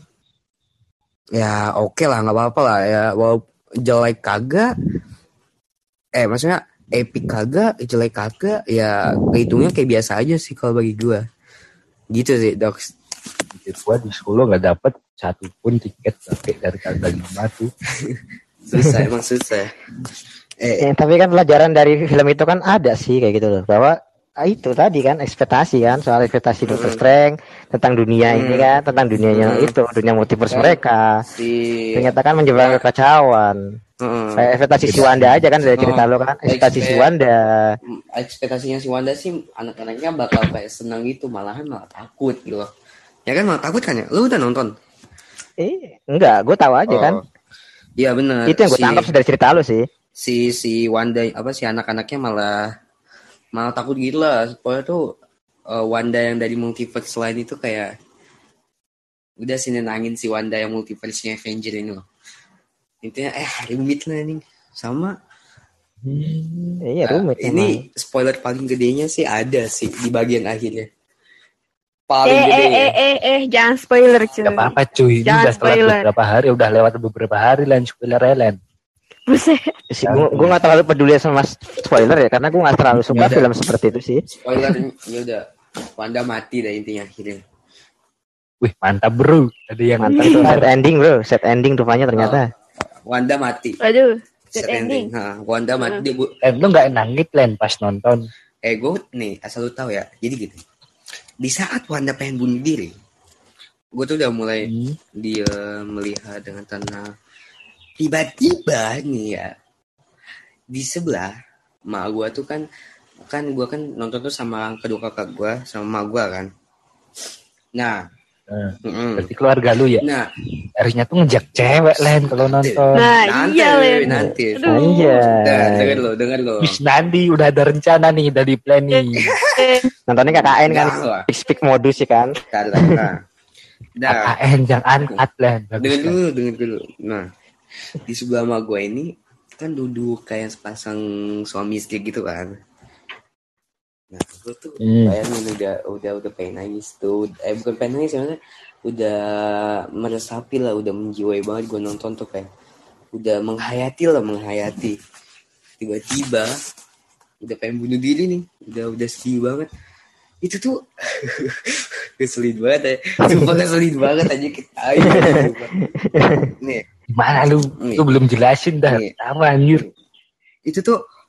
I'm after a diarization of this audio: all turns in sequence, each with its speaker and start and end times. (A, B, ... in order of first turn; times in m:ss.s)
0:01.4-0:04.7 A
0:06.2-0:11.2 A
0:12.1-0:12.9 A
0:13.5-0:17.7 B
0:18.0-0:19.9 A
0:20.6-0:20.8 A
0:20.8-0:31.2 C
0:26.7-0:27.0 A
0:28.3-0:28.7 A
0:29.3-0:29.7 A
0:30.5-0:32.8 A
0:31.9-0:33.6 C
0:34.0-0:34.5 A
0:34.4-0:37.8 C
0:34.8-0:35.4 B
0:35.8-0:37.1 A
0:37.9-0:42.7 A
0:43.3-0:44.7 A
0:45.6-0:47.2 C
0:46.9-0:47.2 A
0:48.0-0:49.1 A
0:48.5-0:49.8 C
0:50.2-0:52.6 A
0:53.6-0:55.0 A
0:55.7-0:57.9 A
0:59.4-1:02.0 A
1:03.0-1:05.1 A
1:06.0-1:06.8 B
1:06.8-1:07.8 C
1:07.0-1:10.9 A
1:12.1-1:12.9 A
1:12.2-1:14.7 D
1:14.4-1:18.6 B
1:15.2-1:16.1 D
1:19.3-1:19.7 D
1:19.9-1:24.2 C
1:20.0-1:20.6 B
1:23.1-1:23.5 A
1:24.3-1:25.4 A
1:26.0-1:27.4 A
1:28.6-1:30.7 B
1:30.0-1:32.4 C
1:30.2-1:30.5 D
1:33.0-1:33.8 A
1:33.8-1:35.1 D
1:34.5-1:36.3 A
1:36.4-1:38.2 B
1:38.6-1:40.6 A
1:41.4-1:42.9 A
1:43.9-1:47.1 A
1:44.6-1:44.9 B
1:48.0-1:49.5 A
1:50.7-1:51.3 A
1:51.9-1:52.6 A
1:53.2-1:56.5 A
1:58.5-2:00.0 B
1:58.9-1:59.3 A
2:00.8-2:03.0 B
2:01.6-2:06.8 A
2:03.0-2:04.1 D
2:04.1-2:06.0 C
2:04.6-2:05.2 D
2:06.6-2:09.3 B
2:09.6-2:09.9 D
2:10.1-2:13.1 C
2:10.4-2:11.2 A
2:12.5-2:13.2 A
2:14.0-2:14.3 A
2:14.1-2:16.2 B
2:15.8-2:17.2 A
2:18.0-2:22.5 A
2:24.1-2:32.5 A
2:24.8-2:25.1 B
2:33.1-2:35.0 A
2:35.8-2:36.5 A
2:37.4-2:39.7 A
2:40.4-2:45.7 A
2:45.0-2:46.5 C
2:47.2-2:49.9 B
2:47.8-2:48.1 A
2:48.8-2:49.1 A
2:50.6-2:51.0 A